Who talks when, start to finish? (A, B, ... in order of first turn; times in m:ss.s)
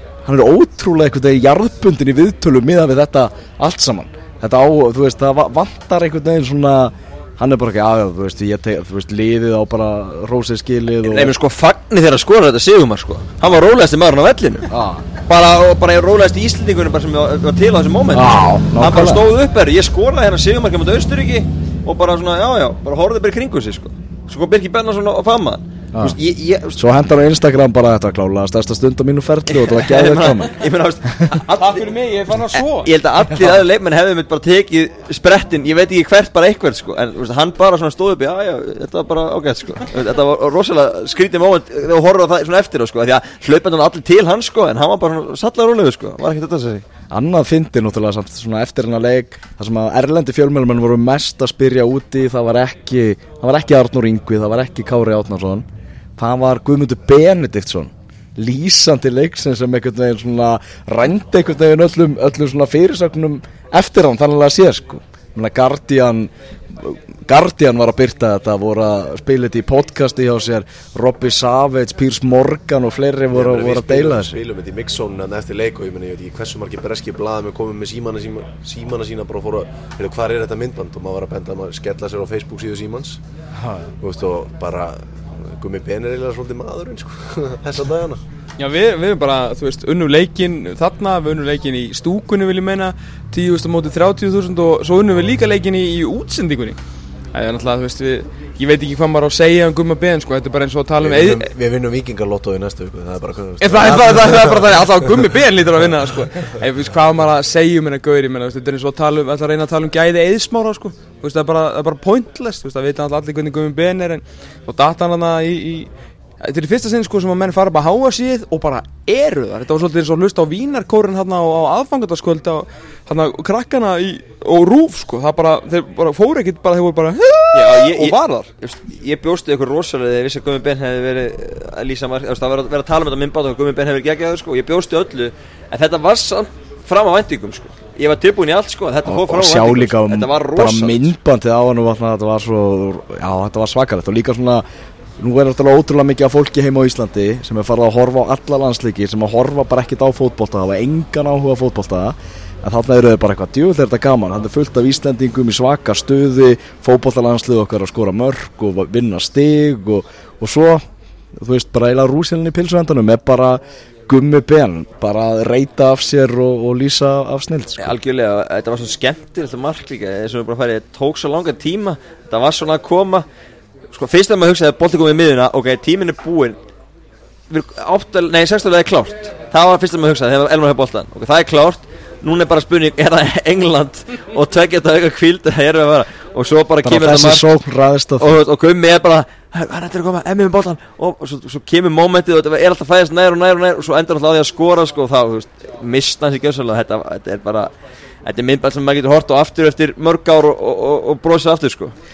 0:00.2-0:11.3 A
0:11.0-0:14.7 B
0:14.7-0:15.0 A
0:15.2-0:26.8 B
0:18.1-0:19.2 A
0:26.8-0:30.5 A
0:29.5-0:31.9 B
0:31.5-0:32.9 C
0:32.5-0:46.8 B
0:47.1-0:55.6 A
0:56.2-1:14.4 A
1:13.3-1:23.2 D
1:23.6-1:23.9 A
1:24.0-1:28.2 D
1:28.6-1:36.8 C
1:37.3-1:41.5 C
1:41.0-1:44.7 D
1:43.6-2:08.5 C
2:07.5-2:21.1 B
2:19.0-2:24.6 A
2:25.2-2:40.8 A
2:41.4-2:47.9 A
2:47.8-2:53.2 B
2:53.9-2:56.6 B
2:57.5-3:07.4 B
3:06.8-3:08.4 A
3:08.2-3:17.7 B
3:18.2-3:21.9 B